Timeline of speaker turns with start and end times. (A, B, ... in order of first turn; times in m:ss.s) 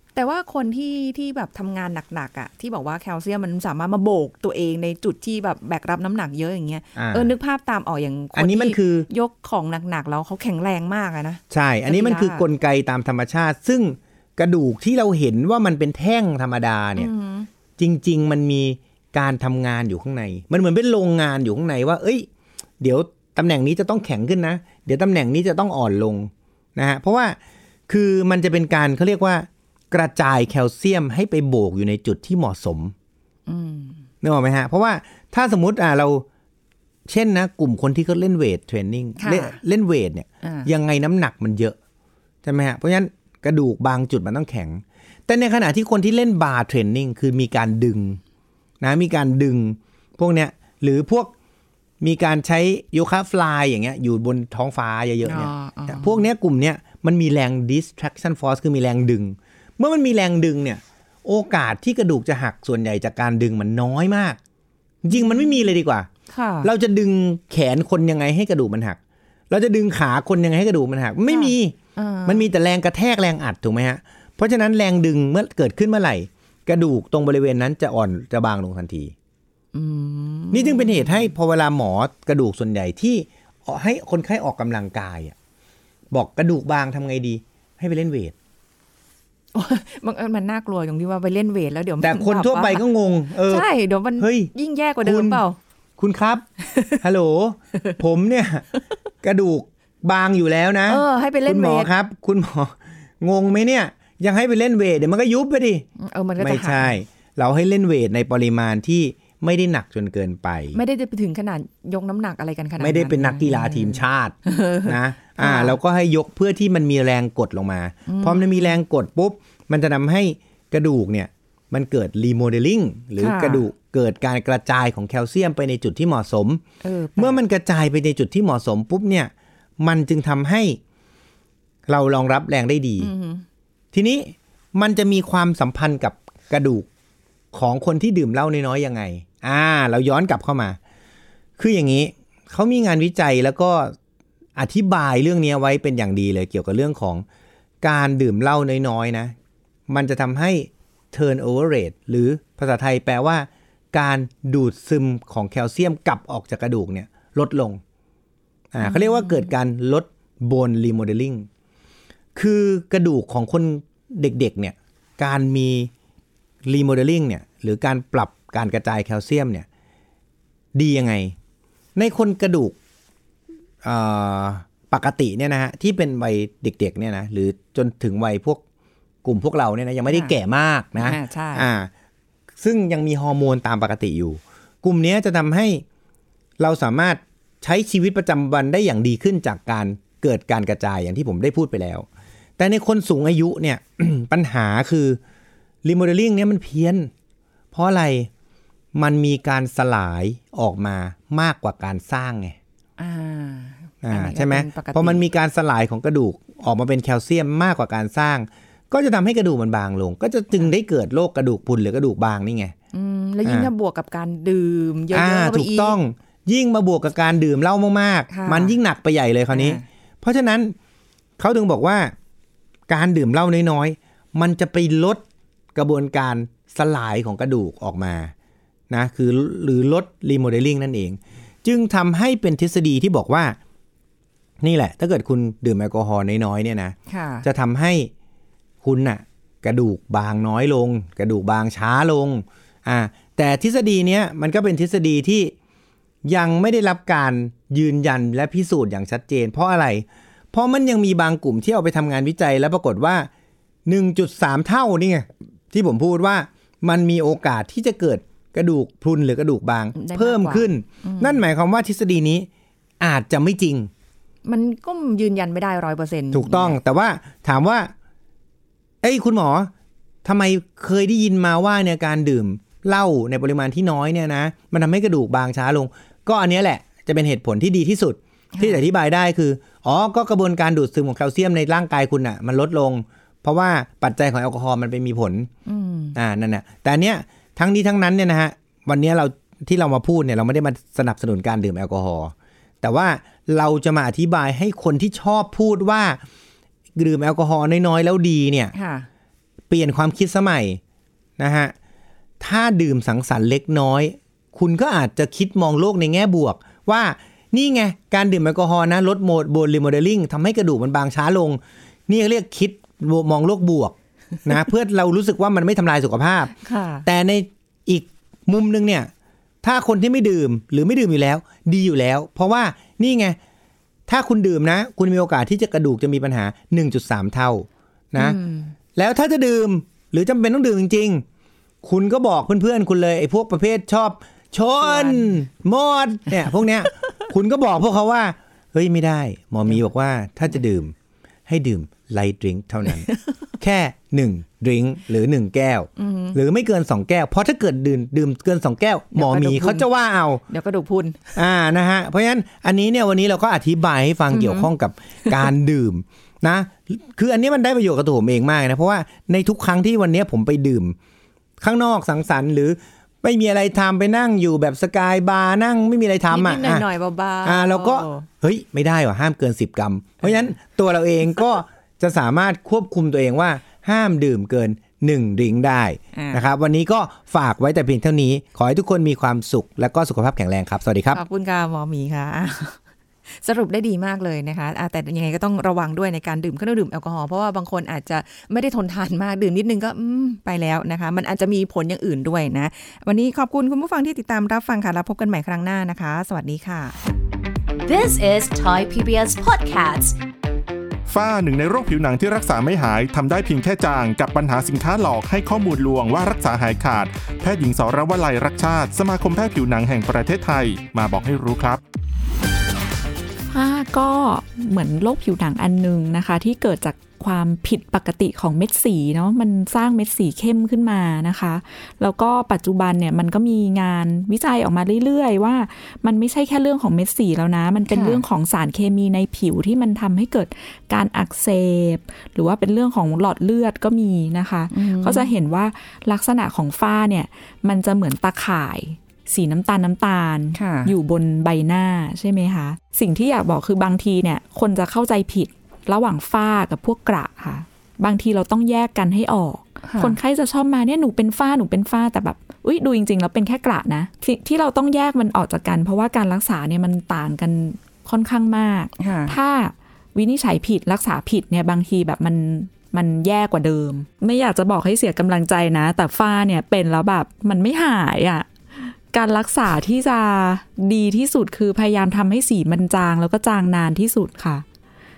0:00.1-0:12.4 A
0:07.0-0:07.3 B
0:08.3-0:09.1 B
0:11.5-0:17.1 B
0:16.9-0:17.5 A
0:17.8-0:22.3 B
0:22.8-0:27.4 B
0:27.9-0:32.9 B
0:33.5-0:34.0 A
0:34.2-0:36.2 B
0:37.1-0:41.8 B
0:39.2-0:39.6 A
0:40.4-0:40.7 A
0:42.4-0:48.2 B
0:48.8-0:51.3 B
0:52.0-1:04.4 B
0:55.2-0:56.2 A
1:05.0-1:06.1 B
1:05.1-1:05.6 A
1:06.3-1:06.7 A
1:06.6-1:09.0 B
1:09.5-1:19.1 B
1:11.3-1:12.5 A
1:19.7-1:21.3 A
1:20.5-1:25.3 B
1:26.1-1:28.3 B
1:29.5-1:32.8 A
1:32.0-1:33.6 B
1:33.4-1:35.6 A
1:34.2-1:34.5 B
1:35.0-1:35.4 B
1:36.0-1:36.4 B
1:36.6-1:37.0 A
1:37.0-1:38.6 B
1:39.2-1:45.9 B
1:40.9-1:41.9 A
1:46.0-1:47.0 A
1:46.4-1:50.8 B
1:50.7-1:55.8 A
1:52.8-2:06.6 B
1:58.0-1:58.8 A
2:03.2-2:03.6 A
2:06.8-2:07.4 A
2:07.2-2:10.8 B
2:11.9-2:13.1 B
2:13.0-2:13.4 A
2:13.9-2:16.9 B
2:17.5-2:20.8 B
2:21.6-2:23.9 B
2:24.6-2:27.2 B
2:27.8-2:29.3 B
2:29.9-2:37.8 B
2:38.7-2:41.5 B
2:38.8-2:39.5 A
2:42.3-2:45.9 B
2:46.6-2:49.6 B
2:50.7-2:51.4 B
2:52.0-2:52.8 B
2:53.8-2:58.6 B
2:59.2-3:01.9 B
3:00.1-3:00.3 A
3:01.0-3:01.7 A
3:02.6-3:05.8 B
3:06.6-3:12.0 B
3:12.6-3:15.2 B
3:15.8-3:17.1 B
3:17.7-3:18.3 B
3:18.9-3:22.6 B
3:23.0-3:25.2 A
3:24.0-3:32.7 B
3:32.9-3:36.0 A
3:33.4-3:33.7 B
3:35.1-3:40.7 B
3:38.3-3:38.8 A
3:39.5-3:39.8 A
3:41.4-3:42.1 B
3:42.9-3:45.2 B
3:45.7-3:48.3 B
3:48.9-3:53.6 B
3:54.6-3:58.1 B
3:57.1-3:57.5 A
3:58.8-4:05.5 B
4:06.2-4:13.3 B
4:13.8-4:22.5 B
4:19.9-4:21.4 A
4:23.0-4:23.9 B
4:24.4-4:26.8 A
4:26.3-4:27.9 B
4:29.0-4:29.7 B
4:30.2-4:45.5 B
4:38.5-4:38.8 A
4:45.6-4:46.2 A
4:46.2-4:56.2 B
4:57.0-4:58.7 B
4:58.7-4:59.1 A
4:59.7-5:00.8 B
5:01.4-5:01.7 B
5:02.4-5:19.1 B
5:16.6-5:17.0 A
5:19.6-5:23.4 B
5:24.1-5:28.4 B
5:28.2-5:28.7 A
5:29.0-5:31.2 B
5:31.8-5:40.9 B
5:34.8-5:35.4 A
5:41.5-5:43.1 B
5:42.8-5:43.2 A
5:43.6-5:50.4 B
5:46.0-5:46.4 A
5:49.1-5:49.9 A
5:50.5-5:51.4 A
5:51.3-6:01.0 B
5:54.3-5:54.7 A
6:01.6-6:06.9 B
6:06.3-6:08.2 A
6:07.4-6:21.2 B
6:16.1-6:16.4 A
6:21.1-6:22.8 A
6:23.3-6:36.9 A
6:37.8-6:40.2 C
6:41.1-6:51.8 D
6:53.5-7:54.6 E
7:07.9-7:08.2 A
7:14.7-7:15.3 A
7:20.5-7:20.9 A
7:29.8-7:30.2 A
7:39.0-7:39.4 A